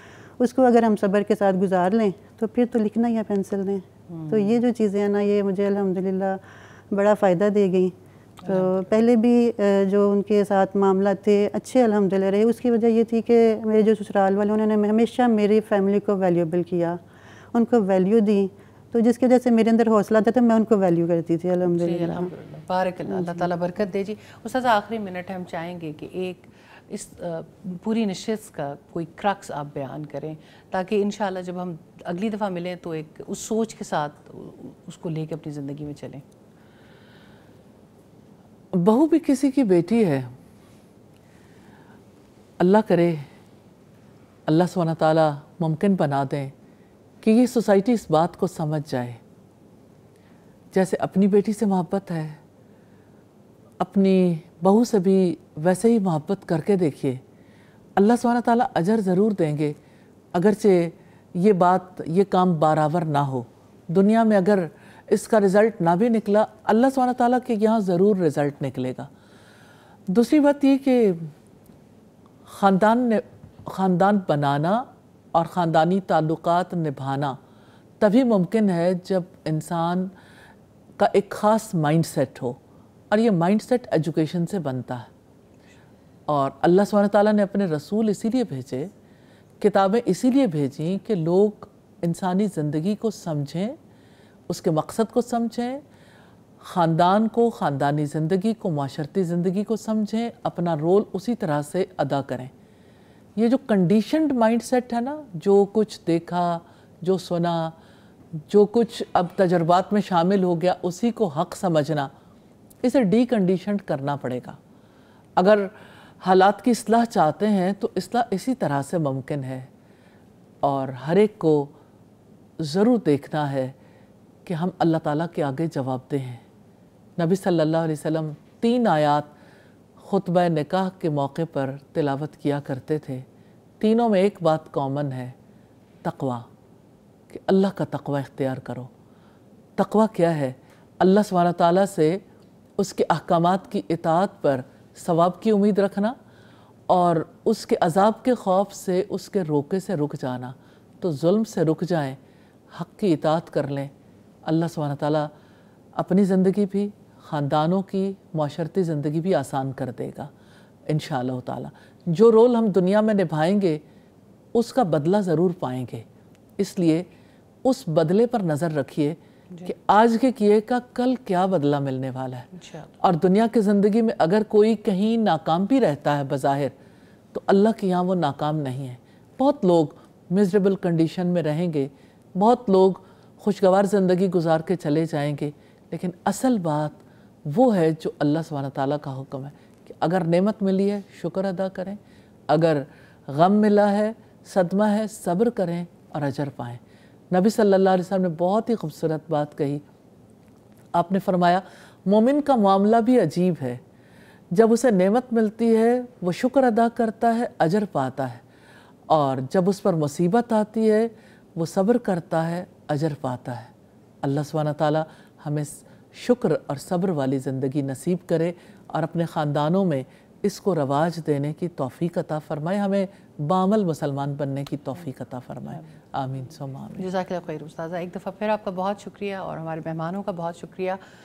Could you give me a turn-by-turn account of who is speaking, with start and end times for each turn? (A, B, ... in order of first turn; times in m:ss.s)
0:00.4-0:17.0 A
0:04.1-0:04.6 B
0:08.4-0:08.9 B
0:17.5-0:22.3 A
0:21.7-0:36.2 B
0:23.0-0:23.5 A
0:38.7-0:40.3 C
0:42.6-0:43.2 C
0:44.5-0:46.5 C
0:47.2-0:49.2 C
0:50.7-0:52.4 C
0:53.8-0:57.2 C
0:58.0-0:59.8 C
1:00.3-1:09.1 C
1:10.1-1:11.3 C
1:12.5-1:17.4 C
1:18.0-1:20.1 C
1:21.0-1:22.6 C
1:23.1-1:25.1 C
1:26.3-1:28.9 C
1:29.6-1:33.7 C
1:34.5-1:35.8 C
1:36.6-1:42.5 C
1:43.4-1:47.7 C
1:48.5-1:52.1 C
1:52.8-1:54.6 C
1:55.4-1:59.7 C
2:00.6-2:01.7 C
2:02.6-2:03.7 C
2:04.4-2:06.4 C
2:07.2-2:09.3 C
2:10.0-2:13.2 C
2:13.8-2:15.3 C
2:16.0-2:16.4 C
2:17.3-2:18.9 C
2:19.8-2:22.2 C
2:22.8-2:26.1 C
2:26.9-2:32.2 C
2:32.7-2:33.9 C
2:34.4-2:35.3 C
2:36.0-2:40.3 C
2:40.9-2:43.8 C
2:44.5-2:46.0 C
2:46.6-2:47.1 C
2:47.6-2:52.5 C
2:49.5-2:49.8 B
2:52.5-2:52.9 B
2:53.0-2:56.7 C
2:57.3-3:19.8 C
3:21.0-3:23.8 C
3:24.5-3:28.4 C
3:29.1-3:33.7 C
3:34.2-3:47.1 C
3:46.9-3:51.0 B